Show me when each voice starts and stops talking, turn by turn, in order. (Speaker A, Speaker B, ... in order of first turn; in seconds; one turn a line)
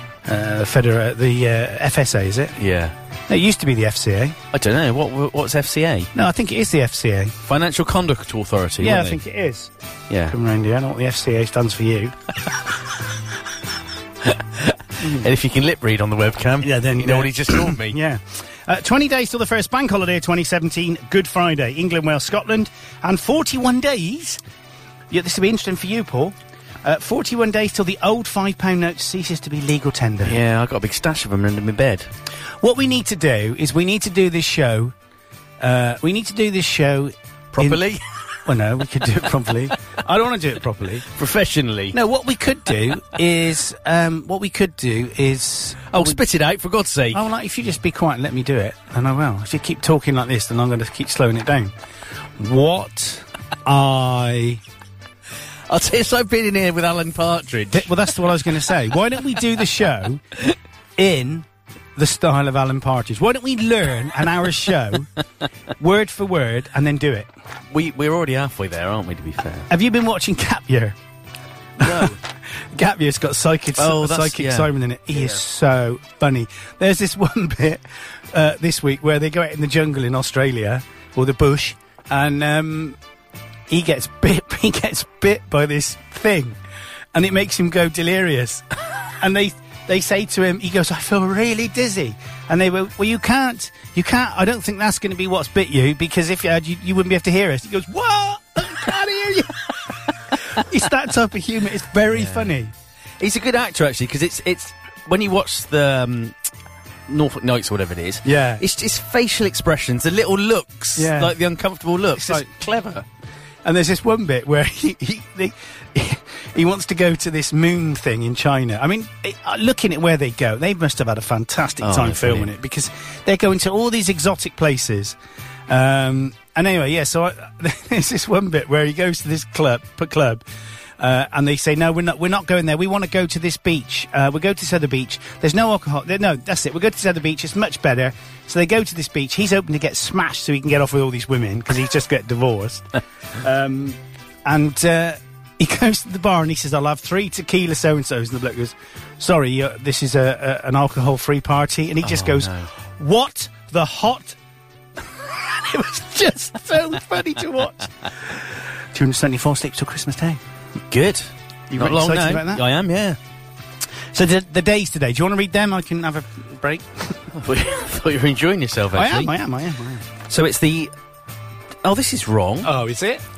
Speaker A: 0.2-2.5
Speaker B: 2.6-2.9
Speaker A: 3.3-4.4
Speaker B: 4.5-6.1
Speaker A: 6.1-7.3
Speaker B: 7.4-9.2
Speaker A: 8.8-9.7
Speaker B: 10.1-10.3
Speaker A: 10.3-12.1
Speaker B: 14.2-18.0
Speaker A: 16.6-24.4
Speaker A: 25.1-30.4
Speaker B: 30.2-32.1
Speaker A: 32.6-34.9
Speaker A: 35.6-37.8
Speaker B: 37.5-38.0
Speaker A: 38.5-41.0
Speaker B: 41.1-42.0
Speaker A: 41.9-46.2
Speaker B: 45.9-47.2
Speaker A: 47.1-51.7
Speaker A: 52.4-54.6
Speaker B: 55.7-57.9
Speaker A: 57.7-60.4
Speaker A: 61.0-65.1
Speaker A: 65.8-67.3
Speaker B: 67.7-69.7
Speaker A: 69.7-71.0
Speaker B: 71.8-72.2
Speaker A: 71.8-83.0
Speaker B: 73.8-75.4
Speaker A: 83.7-86.6
Speaker A: 87.1-88.7
Speaker A: 89.2-102.7
Speaker B: 102.1-102.5
Speaker B: 103.2-106.3
Speaker B: 107.1-113.0
Speaker A: 108.2-108.6
Speaker A: 111.0-111.3
Speaker A: 112.1-112.5
Speaker A: 113.6-125.2
Speaker B: 121.8-122.5
Speaker A: 125.7-130.4
Speaker A: 131.0-154.4
Speaker B: 152.0-152.7
Speaker A: 155.0-160.4
Speaker B: 160.9-163.2
Speaker A: 161.7-162.6
Speaker A: 164.1-167.3
Speaker B: 167.3-169.3
Speaker A: 168.9-170.1
Speaker B: 170.3-170.9
Speaker B: 171.8-172.7
Speaker A: 172.6-173.2